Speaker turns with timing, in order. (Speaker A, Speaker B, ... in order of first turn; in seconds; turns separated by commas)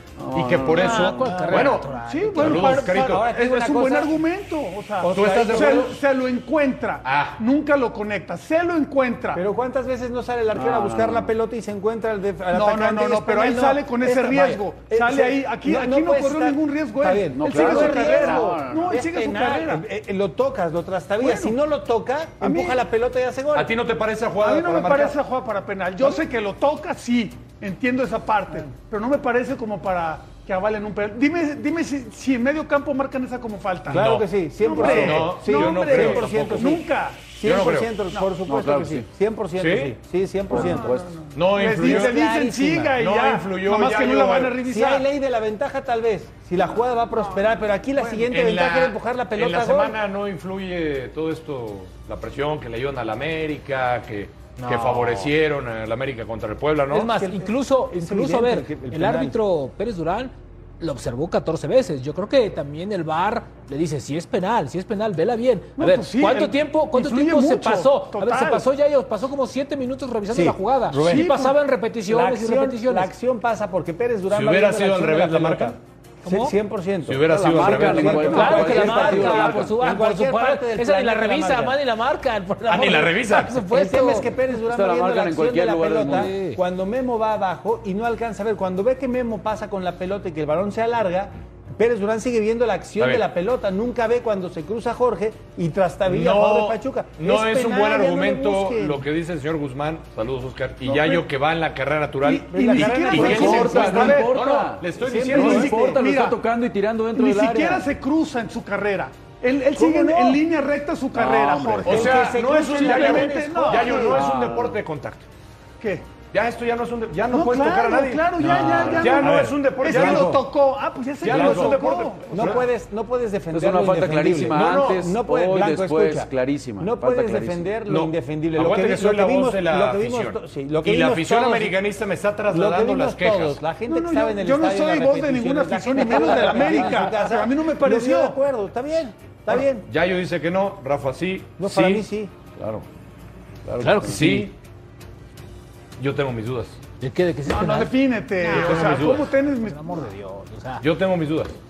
Speaker A: 0.2-1.5, Speaker B: 0.3-3.3, Speaker C: 0.7-2.7, Speaker D: 1.1-9.4, Speaker E: 2.5-4.2, Speaker E: 5.0-5.9, Speaker B: 5.1-6.0, Speaker B: 7.0-7.4, Speaker E: 9.3-23.7, Speaker A: 10.5-11.3, Speaker D: 12.5-19.8, Speaker A: 17.3-19.1, Speaker D: 21.2-21.6, Speaker D: 22.4-22.8, Speaker B: 23.5-25.2, Speaker D: 24.4-37.3, Speaker E: 33.9-40.9, Speaker B: 33.9-34.3, Speaker B: 34.8-36.8, Speaker B: 37.4-37.9, Speaker A: 38.5-39.1, Speaker B: 39.6-40.0, Speaker A: 40.5-41.2, Speaker D: 40.5-45.0, Speaker B: 41.3-42.2, Speaker E: 41.8-43.0, Speaker B: 43.0-44.6, Speaker E: 44.6-50.0, Speaker B: 48.3-57.1, Speaker C: 54.6-55.3, Speaker C: 56.9-73.1, Speaker E: 57.1-59.4, Speaker D: 65.8-68.7, Speaker E: 70.3-71.3, Speaker D: 71.0-71.6, Speaker E: 72.0-81.8, Speaker B: 74.3-75.8, Speaker C: 76.2-76.5, Speaker B: 77.1-78.8, Speaker A: 77.3-79.8, Speaker C: 78.3-84.3, Speaker B: 82.7-83.7, Speaker E: 83.7-99.1, Speaker A: 84.5-86.3, Speaker C: 86.0-86.6, Speaker B: 93.0-93.2, Speaker B: 96.1-105.8, Speaker E: 100.9-101.2, Speaker E: 102.2-104.3, Speaker D: 102.3-104.4, Speaker A: 102.8-107.9, Speaker E: 105.0-106.0, Speaker D: 105.3-106.4, Speaker D: 107.1-114.2, Speaker E: 109.8-110.4, Speaker A: 111.1-112.1, Speaker E: 111.8-114.2, Speaker B: 111.8-115.2, Speaker A: 114.0-114.8, Speaker D: 115.8-116.1, Speaker B: 116.3-120.4, Speaker D: 117.3-122.6, Speaker E: 118.4-120.4, Speaker A: 118.4-119.2, Speaker B: 121.2-122.7, Speaker E: 121.3-131.8, Speaker A: 123.5-127.7, Speaker B: 124.5-125.1, Speaker B: 127.9-133.6, Speaker E: 132.5-139.9, Speaker D: 133.9-138.4, Speaker B: 139.5-142.1, Speaker E: 141.6-142.3, Speaker A: 142.6-142.9, Speaker A: 143.7-144.5, Speaker C: 143.8-144.4, Speaker B: 144.1-144.5, Speaker B: 146.0-146.8, Speaker C: 147.0-150.8, Speaker D: 147.5-150.0, Speaker B: 148.5-149.3, Speaker B: 150.8-151.6